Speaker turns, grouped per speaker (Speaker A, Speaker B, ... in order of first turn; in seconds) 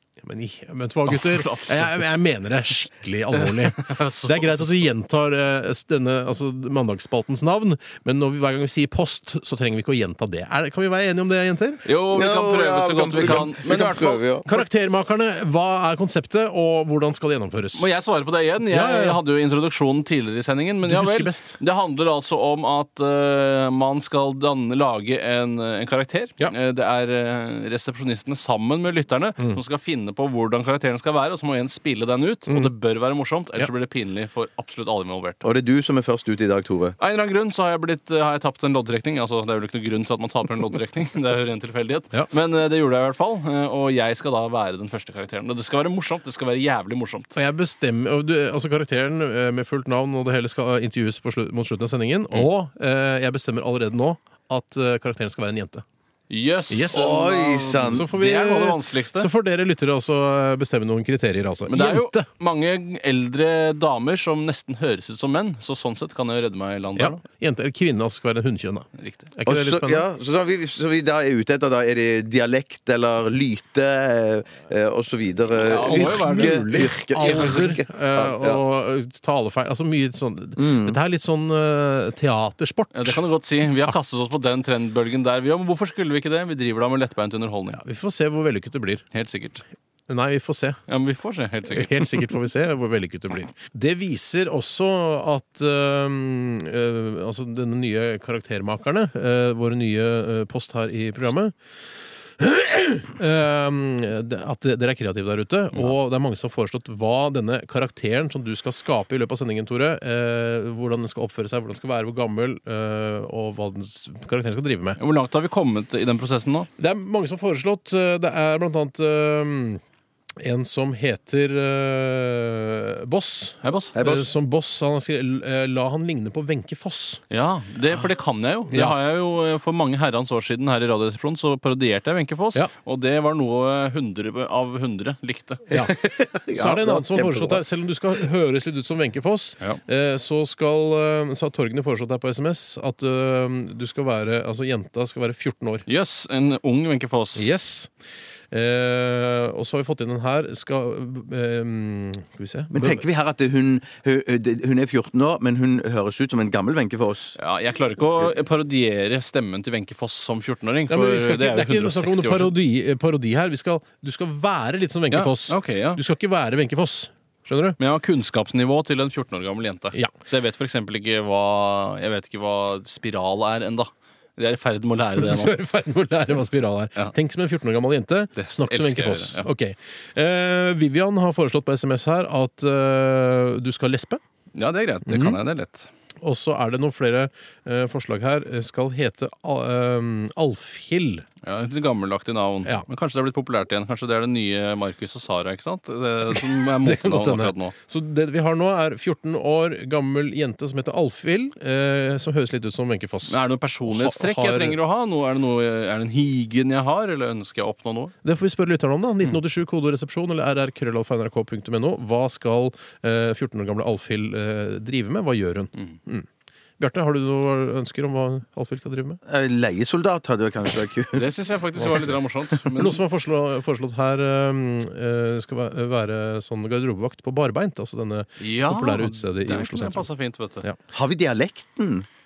Speaker A: 0.2-11.9, 13.3-17.9, 18.6-19.2, 20.9-21.6, 47.4-55.9, 56.7-62.3, 67.0-70.1, 75.8-83.2, 87.8-89.0, 90.1-90.8, 91.7-101.5, 102.4-115.0, 116.8-119.8, 120.4-127.2, 128.7-129.0, 136.5-145.9, 147.4-147.9, 148.5-153.1, 160.9-167.8, 175.2-184.2, 185.1-185.4, 186.2-191.3, 196.3-204.8, 208.2-216.3, 216.8-219.2, 221.8-230.1
Speaker B: 1.1-2.1, 3.3-4.6, 11.8-14.2, 17.8-35.5, 37.0-47.3, 56.3-59.3, 61.7-67.2, 69.0-69.3, 75.5-77.6, 82.9-87.8, 89.1-89.6, 90.9-92.3, 115.0-116.7, 123.6-124.0, 127.3-135.7, 145.9-147.5, 157.4-162.5, 165.1-166.0, 167.8-175.6, 178.4-179.5, 184.6-185.9, 191.4-197.7, 203.3-208.1, 221.1-223.0, 228.4-230.6
Speaker C: 12.1-14.5, 35.4-37.0, 56.9-58.1, 69.5-78.6, 80.6-81.0, 124.0-124.3, 135.7-137.6, 152.7-157.4, 219.3-221.3, 230.9-232.1